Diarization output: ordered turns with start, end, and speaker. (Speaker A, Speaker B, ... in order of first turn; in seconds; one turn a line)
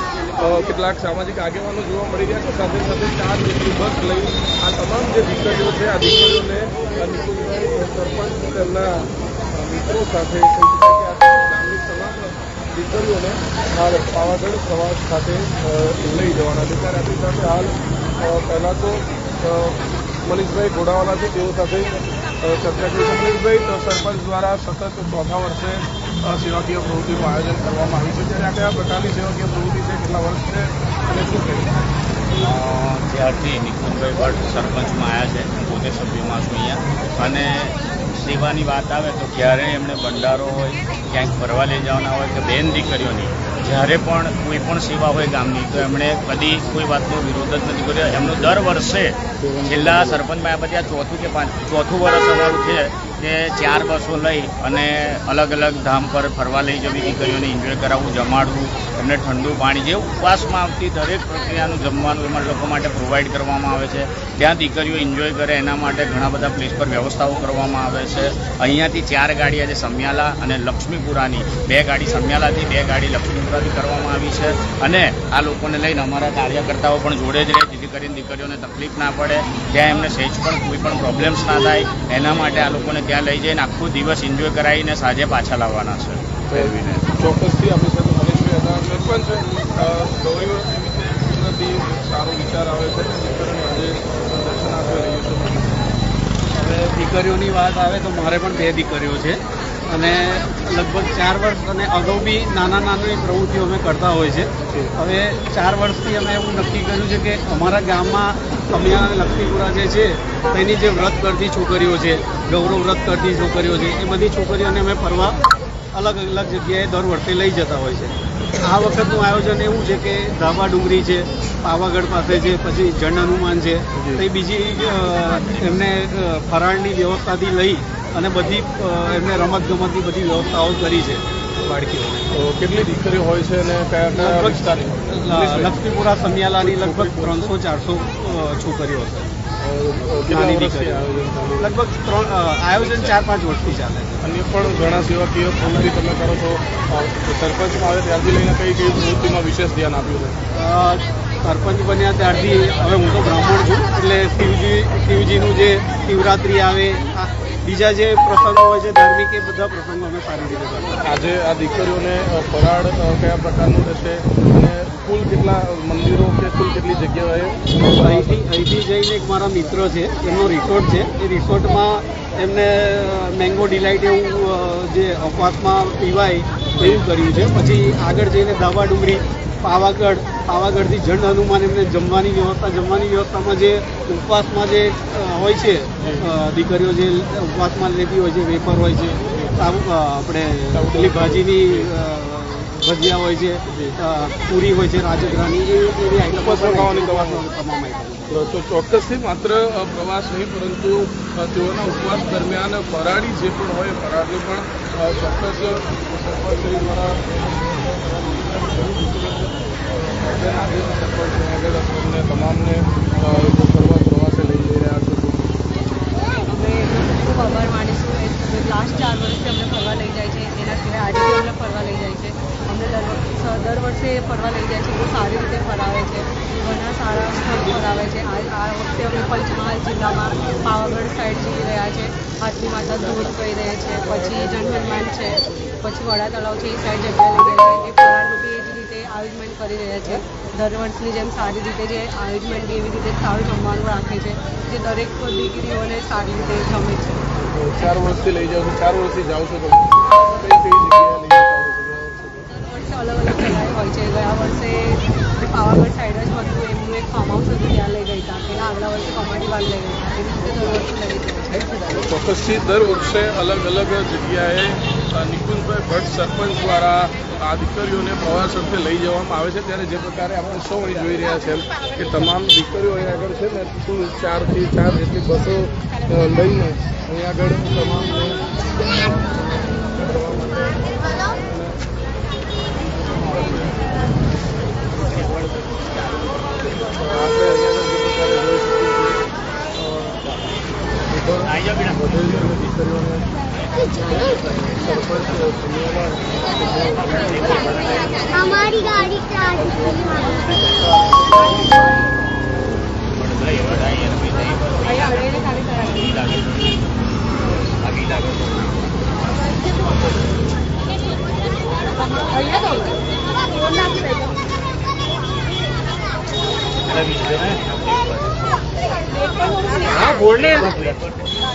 Speaker A: 0.3-31.8
Speaker B: 32.4-87.1
Speaker A: 49.4-50.2
Speaker A: 86.5-95.8
Speaker C: 96.5-115.4
Speaker C: 115.9-132.3
Speaker A: 124.0-124.2
Speaker A: 132.3-135.8
Speaker C: 134.1-139.3
Speaker A: 136.6-137.5
Speaker A: 139.6-141.8
Speaker C: 140.3-141.1
Speaker C: 141.6-144.2
Speaker A: 144.2-150.4
Speaker C: 150.5-161.0
Speaker A: 161.0-168.3
Speaker C: 167.9-198.4
Speaker A: 176.8-177.0
Speaker A: 186.0-186.3
Speaker A: 189.3-189.6
Speaker A: 190.7-191.9
Speaker A: 193.7-194.0
Speaker A: 196.3-197.5
Speaker A: 198.3-215.6
Speaker D: 216.5-247.2
Speaker A: 247.4-252.5
Speaker D: 252.7-262.0
Speaker A: 261.9-281.8
Speaker A: 282.9-284.1
Speaker B: 285.1-285.6
Speaker A: 286.9-289.2
Speaker A: 289.8-290.3
Speaker A: 291.1-293.3
Speaker B: 291.4-292.3
Speaker A: 294.1-297.9
Speaker B: 297.2-298.6
Speaker A: 298.4-301.9
Speaker B: 303.1-307.0
Speaker D: 304.9-306.0
Speaker B: 307.8-308.8
Speaker D: 312.3-312.9
Speaker B: 316.8-318.5
Speaker B: 319.7-321.3